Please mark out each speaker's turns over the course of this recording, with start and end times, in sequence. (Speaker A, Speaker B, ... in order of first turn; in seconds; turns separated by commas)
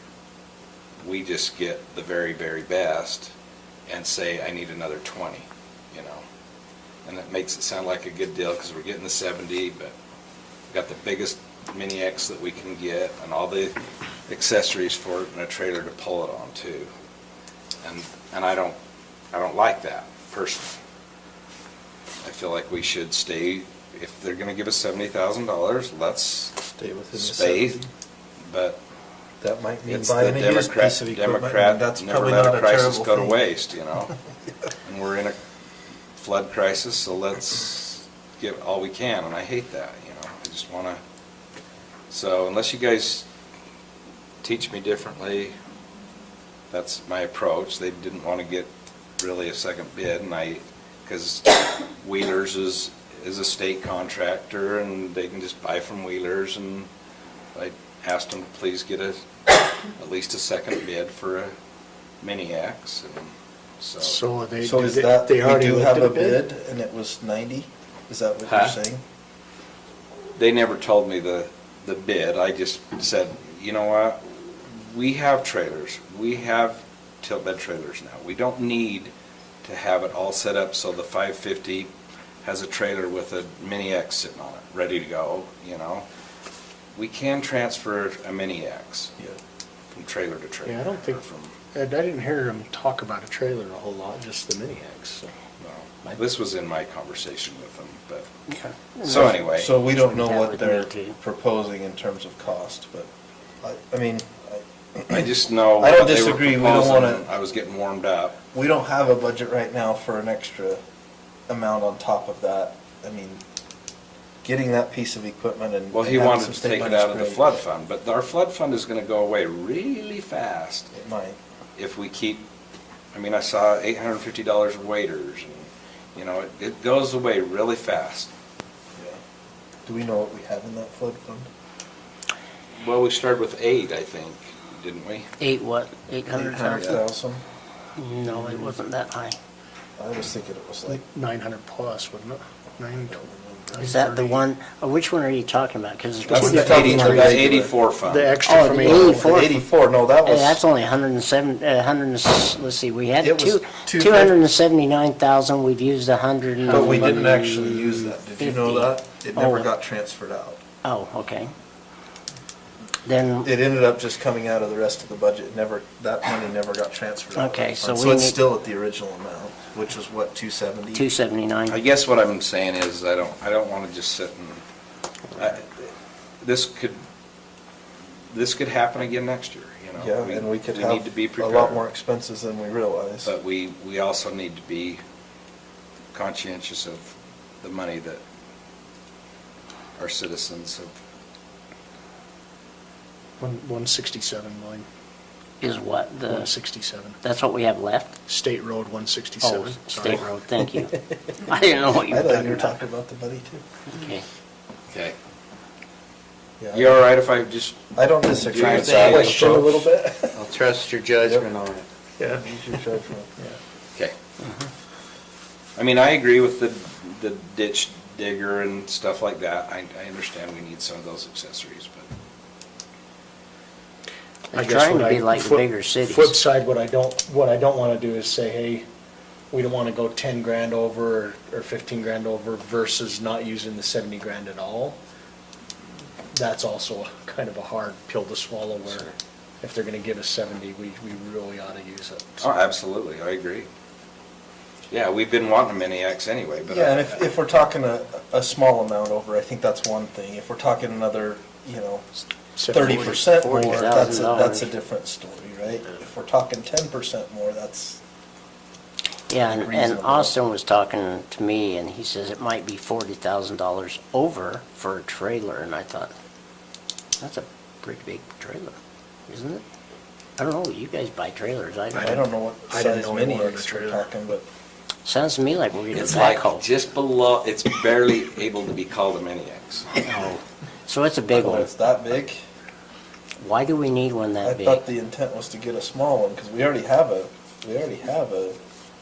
Speaker A: 1.0-3.3, Speaker A: 3.9-6.2, Speaker A: 7.0-9.9, Speaker A: 10.7-13.8, Speaker A: 14.3-16.9, Speaker A: 17.8-18.8, Speaker A: 19.3-20.8, Speaker A: 22.2-26.6, Speaker B: 26.8-27.9, Speaker A: 27.2-27.8, Speaker A: 28.5-28.8, Speaker B: 29.4-33.4, Speaker A: 29.9-34.1, Speaker A: 34.8-35.4, Speaker A: 36.2-41.0, Speaker A: 42.1-43.3, Speaker A: 44.4-45.5, Speaker A: 46.7-56.9, Speaker A: 57.5-59.2, Speaker A: 60.0-61.5, Speaker A: 62.2-64.2, Speaker C: 64.0-66.4, Speaker B: 64.6-69.0, Speaker A: 70.4-79.1, Speaker A: 79.6-81.9, Speaker A: 82.4-86.1, Speaker A: 87.0-89.1, Speaker A: 90.0-91.5, Speaker C: 90.7-91.2, Speaker C: 91.7-95.3, Speaker A: 95.6-98.3, Speaker D: 98.5-101.2, Speaker A: 99.0-99.7, Speaker B: 99.0-103.1, Speaker B: 103.6-107.2, Speaker A: 105.1-108.4, Speaker B: 108.5-110.8, Speaker B: 111.5-113.4, Speaker B: 114.4-117.5, Speaker A: 115.9-120.9, Speaker B: 120.9-121.4, Speaker A: 121.8-122.5, Speaker A: 123.1-128.3, Speaker B: 129.9-131.5, Speaker A: 132.8-135.3, Speaker D: 135.4-137.0, Speaker B: 136.3-137.4, Speaker D: 138.0-139.4, Speaker B: 140.0-141.0, Speaker C: 140.9-143.2, Speaker B: 143.0-143.9, Speaker C: 143.7-144.4, Speaker D: 143.8-147.4, Speaker B: 146.3-147.7, Speaker A: 146.3-148.7, Speaker C: 146.3-147.3, Speaker C: 148.0-149.5, Speaker D: 148.4-149.6, Speaker B: 148.8-150.6, Speaker D: 150.2-159.7, Speaker B: 153.2-154.4, Speaker B: 156.7-160.6, Speaker D: 160.8-161.5, Speaker D: 163.1-163.5, Speaker B: 163.4-171.1, Speaker D: 167.3-168.4, Speaker D: 170.9-171.8, Speaker A: 171.7-174.6, Speaker A: 175.4-175.9, Speaker A: 176.4-177.0, Speaker A: 178.3-181.8, Speaker B: 180.0-183.3, Speaker A: 183.2-185.0, Speaker A: 186.1-188.2, Speaker A: 190.0-190.9, Speaker C: 193.4-194.9, Speaker D: 195.6-196.5, Speaker C: 196.3-197.2, Speaker D: 197.2-198.2, Speaker C: 198.3-200.3, Speaker D: 199.4-202.7, Speaker B: 202.0-203.6, Speaker D: 203.9-204.2, Speaker A: 204.9-205.2, Speaker B: 206.6-207.0, Speaker A: 206.7-207.8, Speaker B: 207.9-210.4, Speaker A: 208.4-209.4, Speaker E: 208.6-209.4, Speaker C: 209.2-209.9, Speaker E: 210.3-211.9, Speaker C: 212.2-212.5, Speaker B: 212.3-213.3, Speaker A: 215.8-222.1, Speaker D: 224.5-226.3, Speaker C: 224.5-228.8, Speaker C: 229.5-235.0, Speaker C: 236.3-242.5, Speaker A: 242.4-243.7, Speaker A: 244.9-247.2, Speaker B: 246.7-252.0, Speaker C: 252.6-254.1, Speaker B: 252.7-258.0, Speaker D: 253.5-254.7, Speaker D: 259.3-266.1, Speaker B: 259.4-260.4, Speaker D: 267.2-268.8, Speaker D: 269.3-269.6, Speaker D: 270.4-272.2, Speaker C: 271.9-274.1, Speaker B: 271.9-274.4, Speaker D: 275.1-276.6, Speaker A: 275.9-279.9, Speaker D: 280.0-281.7, Speaker B: 281.3-282.4, Speaker D: 283.4-284.8, Speaker B: 284.4-288.6